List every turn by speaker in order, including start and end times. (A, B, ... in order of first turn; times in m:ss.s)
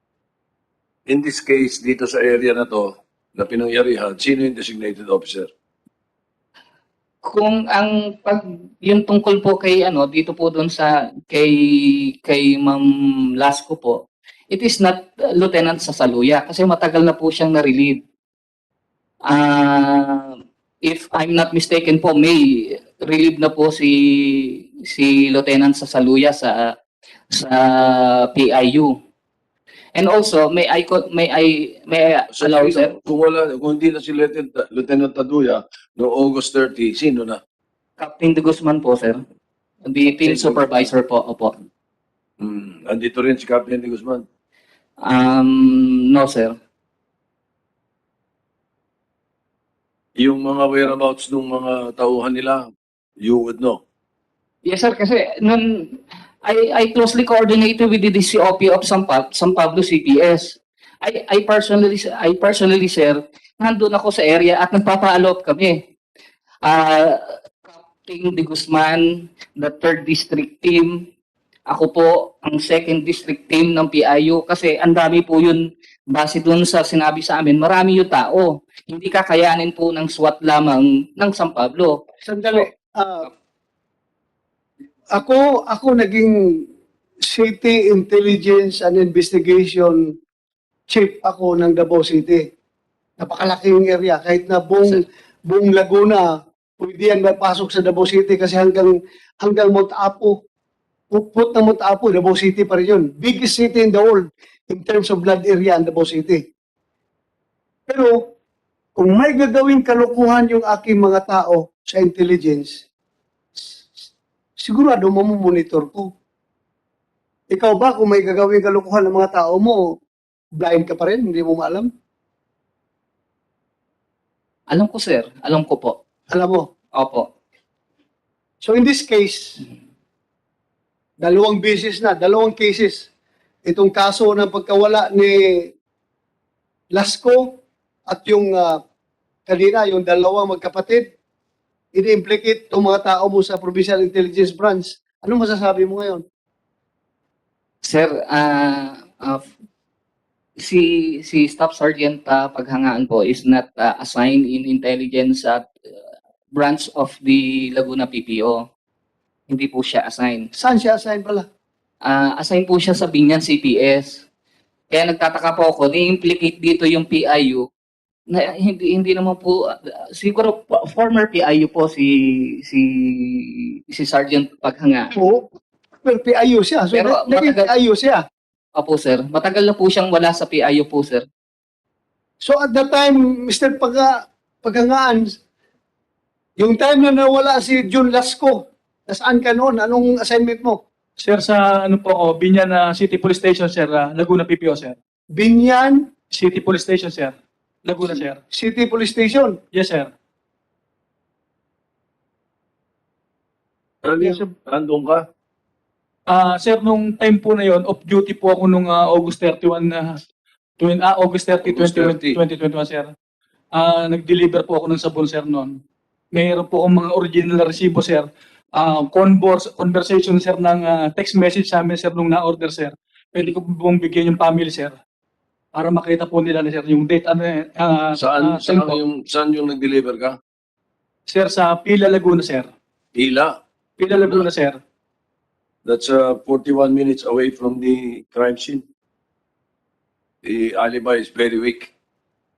0:01.1-0:05.5 A
0:07.2-0:18.0 B
0:19.3-0:26.7 B
0:27.3-0:28.9 B
0:29.9-0:32.9 B
0:32.4-0:37.4 A
0:38.0-0:39.2 B
0:39.9-0:41.5 B
0:40.2-0:40.7 A
0:42.4-0:44.2 A
0:45.0-0:46.5 B
0:50.2-0:52.6 A
0:53.2-0:53.8 A
0:54.6-1:05.8 B
1:06.6-1:11.0 B
1:11.7-1:21.9 B
1:22.2-1:23.3 C
1:25.1-1:26.6 C
1:27.3-1:30.0 C
1:30.9-1:32.4 C
1:33.2-1:40.4 C
1:41.1-1:46.4 C
1:47.9-1:48.2 C
1:49.0-1:52.8 C
1:54.6-1:56.1 C
1:57.5-1:59.9 C
2:00.6-2:01.9 C
2:04.7-2:06.0 B
2:06.3-2:06.7 C
2:07.0-2:07.3 B
2:08.6-2:09.6 C
2:11.2-2:13.1 C
2:13.7-2:15.7 C
2:16.9-2:18.8 C
2:19.5-2:21.1 C
2:21.9-2:26.2 C
2:27.8-2:29.5 B
2:30.6-2:35.6 B
2:36.5-2:38.6 B
2:39.5-2:40.5 B
2:40.6-2:41.4 C
2:42.0-2:44.2 B
2:44.9-2:47.6 B
2:48.3-2:55.1 B
2:55.1-2:55.5 C
2:56.0-2:58.2 C
2:56.9-2:57.7 B
2:58.8-3:01.2 B
3:02.4-3:05.4 C
3:06.6-3:10.8 C
3:11.2-3:15.0 D
3:15.3-3:16.1 C
3:16.3-3:18.4 D
3:18.5-3:19.6 C
3:19.7-3:20.1 D
3:24.0-3:25.2 A
3:26.3-3:30.2 D
3:30.8-3:33.1 D
3:31.6-3:32.4 A
3:33.7-3:35.8 D
3:36.3-3:45.0 D
3:45.7-3:49.0 D
3:48.1-3:50.4 A
3:51.3-3:52.7 D
3:53.1-3:53.6 A
3:54.0-3:54.8 D
3:55.8-3:58.8 A
4:00.4-4:01.9 A